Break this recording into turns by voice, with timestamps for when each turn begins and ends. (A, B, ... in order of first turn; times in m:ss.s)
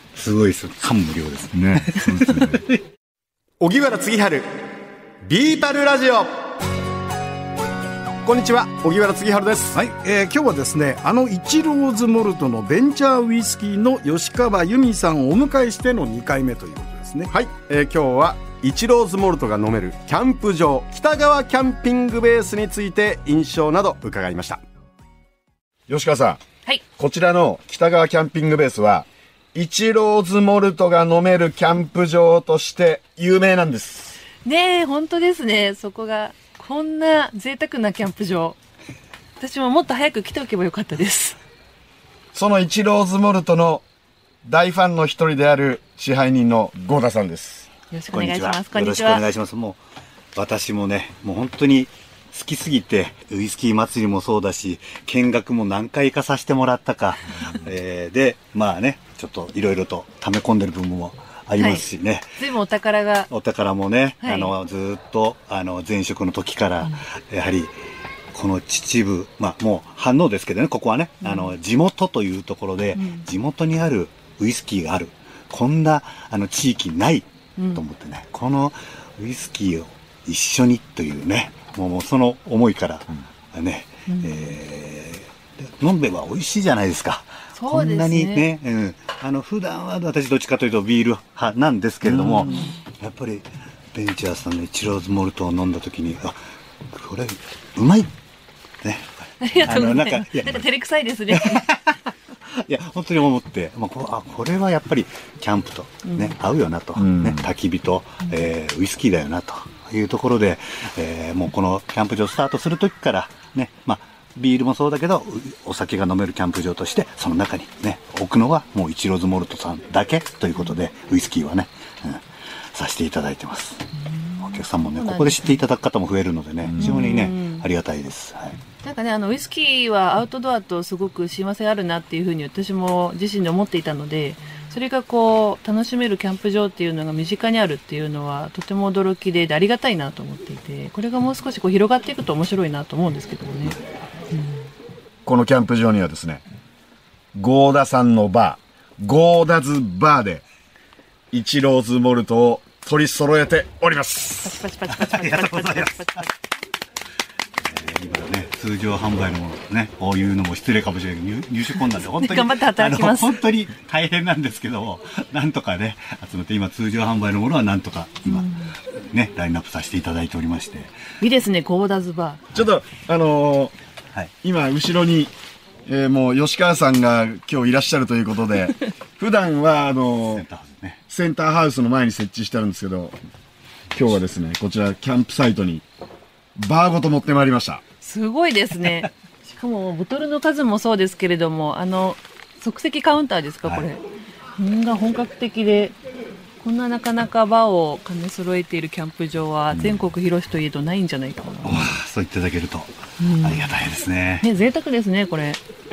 0:00.2-0:02.8 A
0:01.5-0:02.6 B
0:03.6-0:04.5 C
0:05.2-0:06.3 C
0:08.2-0:09.8 C
0:09.7-0:17.3 D
0:17.3-0:24.6 C
0:25.9-0:26.4 B
0:27.0-0:34.2 B
0:34.4-0:38.6 E
0:39.4-0:41.4 E
0:42.3-0:43.8 B
0:44.4-0:47.7 B
0:47.9-0:49.2 E
0:48.1-0:49.8 A
0:50.4-1:02.4 A
1:01.6-1:01.9 E
1:02.4-1:03.3 E
1:03.3-1:07.7 A
1:04.2-1:04.5 E
1:08.3-1:36.4 A
1:11.2-1:11.5 E
1:13.0-1:13.3 E
1:17.6-1:17.8 E
1:24.1-1:24.5 E
1:27.5-1:28.5 E
1:32.0-1:32.5 B
1:32.3-1:32.8 E
1:36.9-1:38.1 A
1:38.8-1:40.7 A
1:39.4-1:41.7 E
1:41.3-1:42.0 A
1:42.6-2:03.9 A
1:46.0-1:46.3 E
1:47.0-1:47.4 B
2:04.0-2:05.6 E
2:04.4-2:08.6 A
2:06.6-2:07.0 B
2:06.8-2:07.7 E
2:08.8-2:23.8 E
2:24.3-2:24.6 E
2:25.2-2:26.4 B
2:27.4-2:30.4 B
2:31.3-2:34.6 B
2:34.4-2:36.4 E
2:34.9-2:36.2 A
2:37.7-2:50.9 A
2:42.0-2:43.4 E
2:48.3-2:48.8 E
2:51.2-2:52.4 E
2:52.5-2:53.7 B
2:54.4-2:55.3 B
2:55.9-3:00.4 B
3:00.3-3:01.0 A
3:01.1-3:03.2 B
3:03.9-3:05.8 B
3:06.6-3:07.8 B
3:08.0-3:14.0 E
3:14.6-3:16.0 E
3:16.6-3:21.8 E
3:21.6-3:24.5 A
3:23.2-3:23.8 E
3:24.4-3:25.6 E